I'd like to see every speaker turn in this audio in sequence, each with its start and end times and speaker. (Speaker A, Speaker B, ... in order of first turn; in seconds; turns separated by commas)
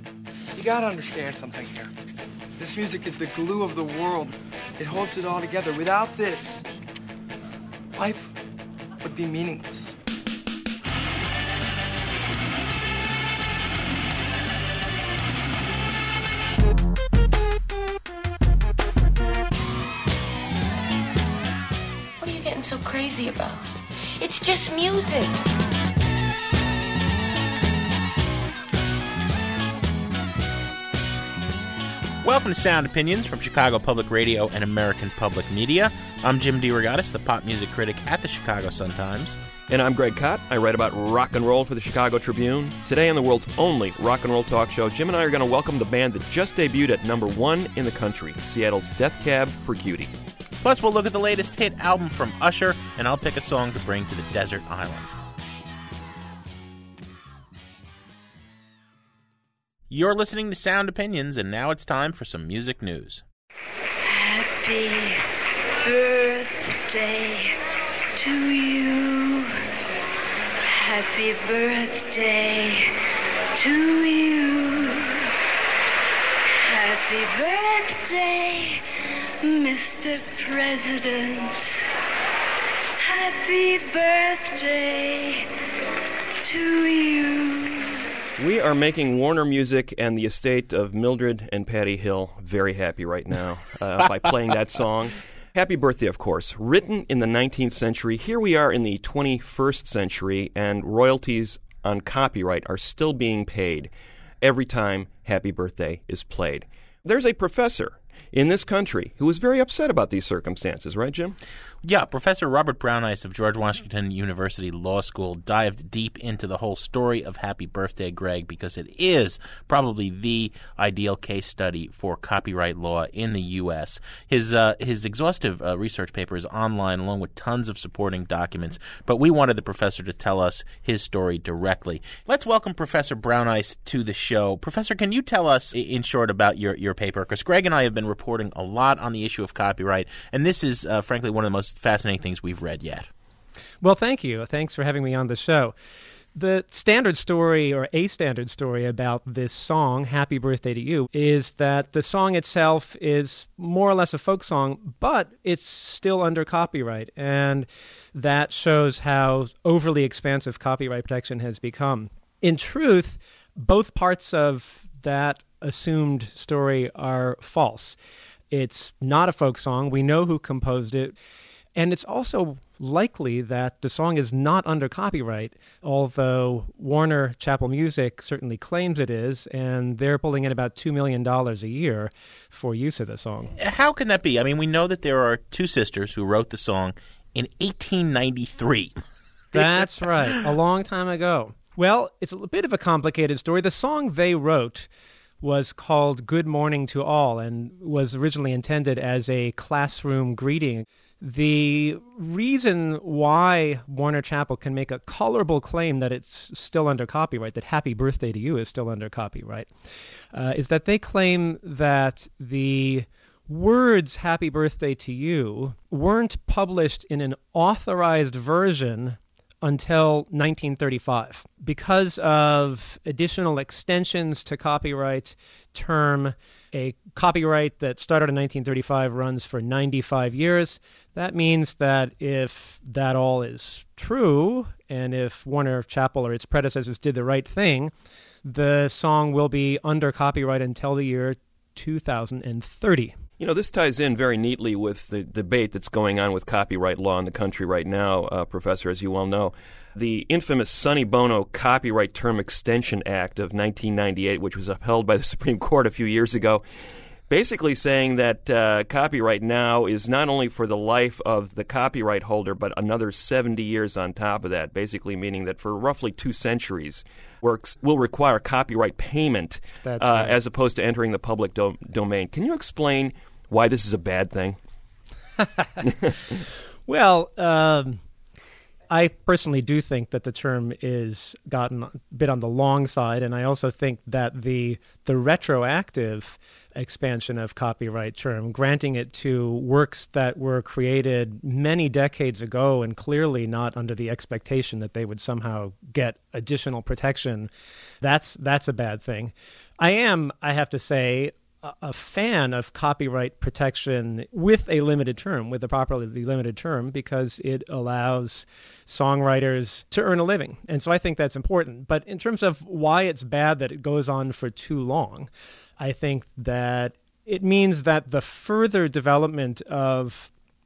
Speaker A: 0.6-1.9, Speaker A: 2.6-6.6, Speaker A: 8.0-8.3, Speaker A: 9.0-9.9, Speaker B: 22.2-23.6, Speaker B: 24.2-25.3, Speaker C: 32.2-39.4, Speaker D: 39.7-50.1, Speaker C: 50.6-55.1, Speaker C: 59.9-63.2, Speaker E: 64.1-65.2, Speaker E: 65.8-67.5, Speaker E: 68.2-69.5, Speaker E: 70.7-72.9, Speaker E: 73.6-75.2, Speaker E: 76.7-78.8, Speaker E: 79.4-81.7, Speaker E: 83.0-85.5, Speaker E: 86.4-87.9, Speaker D: 88.4-111.4, Speaker C: 111.8-143.1, Speaker F: 143.8-145.8, Speaker F: 146.3-168.0, Speaker F: 168.5-171.2, Speaker F: 171.8-183.5, Speaker C: 183.6-189.0, Speaker F: 189.5-194.9, Speaker C: 189.6-190.4, Speaker F: 195.4-209.7, Speaker F: 210.3-237.9, Speaker F: 238.4-243.2, Speaker D: 243.4-256.6, Speaker D: 257.3-274.6, Speaker F: 269.8-270.4, Speaker F: 276.9-278.0, Speaker F: 278.9-320.3